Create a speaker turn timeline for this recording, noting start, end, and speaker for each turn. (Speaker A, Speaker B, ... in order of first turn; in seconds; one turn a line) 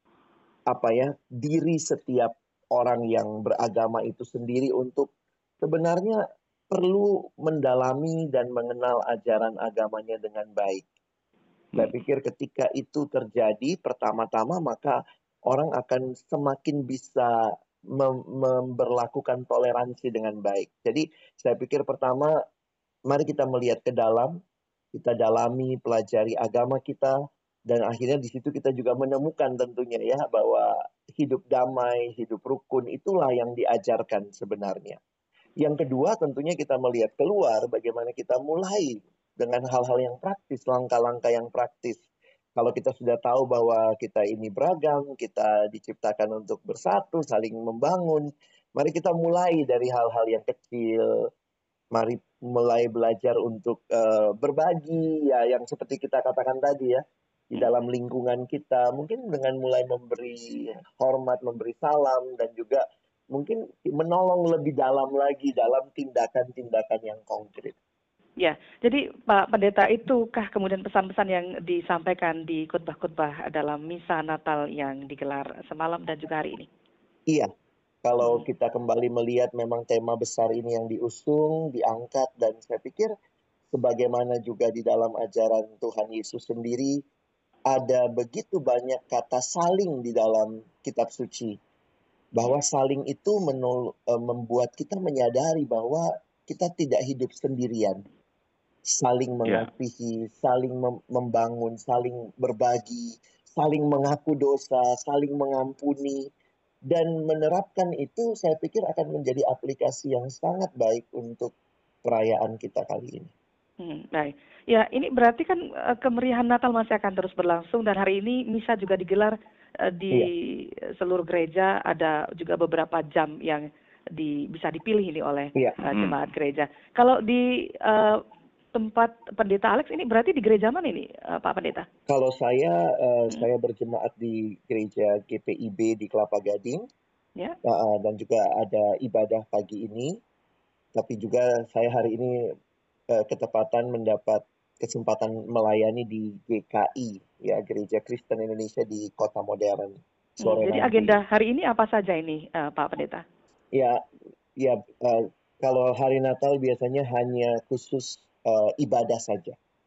Speaker A: 0.7-5.1
Speaker A: 5.6-10.8
Speaker A: 11.8-22.4
Speaker A: 23.1-24.4
Speaker A: 24.9-35.0
Speaker A: 35.6-42.0
Speaker A: 42.5-51.3
Speaker A: 51.9-67.7
Speaker B: 68.4-76.7
Speaker A: 78.0-83.1
Speaker A: 83.7-87.0
Speaker A: 87.7-91.6
Speaker A: 92.3-98.0
Speaker A: 98.9-106.3
Speaker A: 106.9-111.5
Speaker A: 112.0-113.3
Speaker B: 113.8-119.3
Speaker B: 119.9-128.2
Speaker B: 128.7-131.8
Speaker A: 132.1-136.8
Speaker A: 137.6-140.2
Speaker A: 140.9-142.4
Speaker A: 143.1-151.2
Speaker B: 150.4-153.2
Speaker A: 153.7-154.0
Speaker A: 154.6-159.6